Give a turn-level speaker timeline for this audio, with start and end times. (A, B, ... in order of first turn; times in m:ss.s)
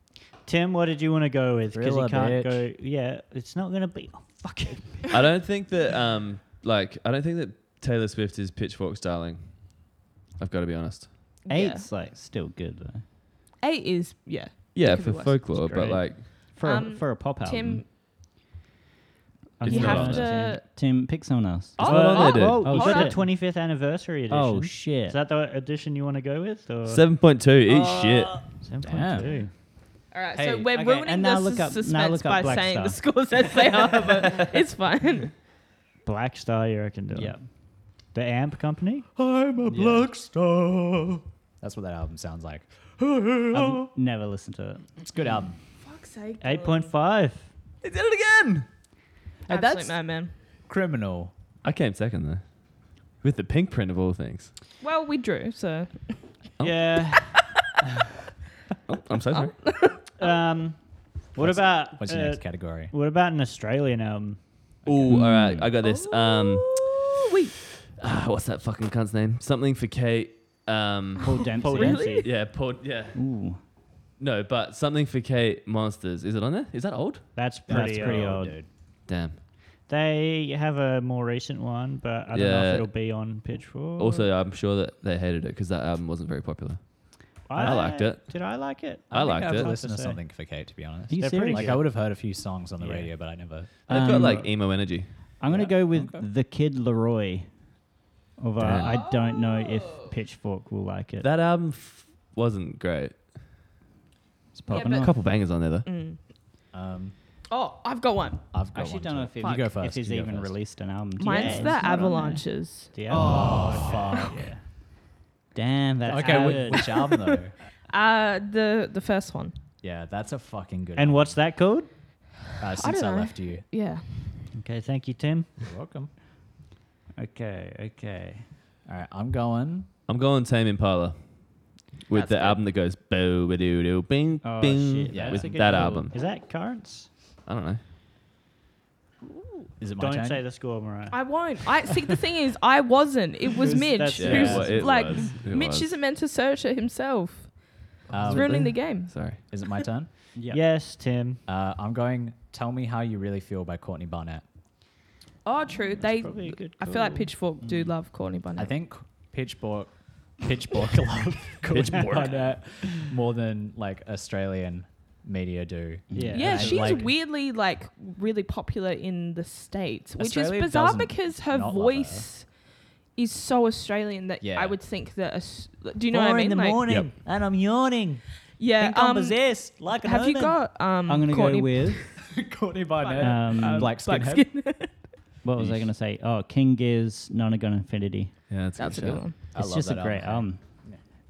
0:00.4-0:05.1 A
0:01.7-0:02.7 B
0:05.1-0:11.4 C
0:11.4-0:11.9 D
0:11.5-0:13.0 E
0:13.6-0:15.4 D
0:14.7-0:16.3 C
0:15.6-0:17.8 E
0:16.4-0:17.8 D
0:19.6-0:23.3 E
0:19.6-0:20.4 C
0:19.7-0:20.6 D
0:21.8-0:23.2 D
0:21.8-0:27.0 A
0:21.8-0:22.7 C
0:24.3-0:25.2 E
0:26.8-0:28.5 C
0:27.8-0:28.3 B
0:28.6-0:29.5 A
0:28.8-0:29.4 B
0:30.1-0:35.3 D
0:30.3-0:30.7 B
0:30.7-0:33.2 E
0:36.0-0:37.4 A
0:37.1-0:37.4 E
0:37.9-0:39.1 A
0:39.2-0:40.4 B
0:39.7-0:40.0 E
0:40.3-0:41.2 C
0:41.6-0:42.7 B
0:43.0-0:43.8 C
0:43.5-0:44.8 E
0:45.0-0:45.6 B
0:45.8-0:46.9 D
0:46.4-0:47.5 A
0:47.8-0:48.6 C
0:49.5-0:50.0 B
0:49.5-0:50.3 D
0:50.6-0:51.3 B
0:51.6-0:54.5 C
0:54.8-0:56.4 D
0:56.6-0:56.9 C
0:56.6-0:57.4 A
0:57.1-0:57.4 D
0:58.9-0:59.6 C
0:59.3-1:00.4 D
1:00.2-1:05.1 A
1:01.4-1:02.9 B
1:04.8-1:07.0 C
1:05.1-1:05.7 E
1:05.8-1:07.5 D
1:07.8-1:11.5 C
1:11.2-1:13.6 E
1:11.2-1:12.3 D
1:11.6-1:12.3 A
1:12.2-1:13.2 C
1:14.2-1:17.4 C
1:17.4-1:18.6 A
1:17.6-1:18.7 B
1:17.7-1:18.5 E
1:19.1-1:19.4 C
1:19.8-1:24.3 A
1:22.3-1:23.1 C
1:24.0-1:29.7 C
1:27.4-1:30.2 A
1:29.1-1:33.7 B
1:31.1-1:31.8 E
1:31.2-1:31.8 A
1:32.8-1:33.1 E
1:33.9-1:35.2 C
1:33.9-1:34.5 E
1:33.9-1:34.4 A
1:35.4-1:37.5 E
1:35.4-1:36.3 B
1:38.4-1:41.3 E
1:38.6-1:39.0 C
1:38.8-1:40.1 D
1:41.2-1:43.3 C
1:44.5-1:45.2 E
1:44.7-1:46.2 D
1:44.7-1:45.9 C
1:46.7-1:47.1 B
1:47.5-1:48.4 D
1:48.5-1:50.6 B
1:48.7-1:51.8 E
1:49.4-1:49.7 D
1:51.2-1:54.2 D
1:51.2-1:54.6 A
1:53.1-1:54.4 B
1:55.5-1:56.9 E
1:56.1-1:57.5 B
1:56.1-1:56.8 A
1:57.9-1:59.5 D
1:59.8-2:01.4 B
2:01.0-2:01.9 A
2:02.6-2:03.6 B
2:02.8-2:04.5 D
2:04.5-2:05.6 A
2:05.6-2:06.1 B
2:07.2-2:08.4 E
2:08.8-2:09.9 B
2:10.1-2:16.2 C
2:12.1-2:12.6 B
2:14.4-2:16.1 E
2:15.1-2:15.5 B
2:15.5-2:17.1 A
2:17.4-2:17.8 C
2:19.3-2:21.4 A
2:19.8-2:20.4 B
2:21.1-2:29.2 D
2:23.6-2:25.3 A
2:24.2-2:26.0 C
2:28.1-2:28.9 B
2:28.3-2:29.5 C
2:29.5-2:30.1 B
2:30.3-2:30.6 E
2:30.5-2:31.4 A
2:31.5-2:34.4 B
2:35.4-2:38.7 D
2:36.0-2:37.3 A
2:37.6-2:37.9 E
2:38.5-2:47.1 B
2:41.7-2:42.6 C
2:46.1-2:46.8 E
2:46.3-2:47.0 A
2:46.3-2:56.9 D
2:50.2-2:52.3 B
2:54.4-2:54.8 B
2:56.1-2:58.2 A
2:56.7-2:57.5 B
2:58.6-3:02.1 D
2:58.8-3:00.5 A
3:01.0-3:02.0 E
3:02.3-3:04.5 B
3:03.0-3:05.1 D
3:03.2-3:03.9 E
3:05.4-3:08.4 E
3:05.6-3:05.9 C
3:08.5-3:09.3 C
3:08.8-3:09.4 D
3:09.5-3:11.0 B
3:09.5-3:10.6 E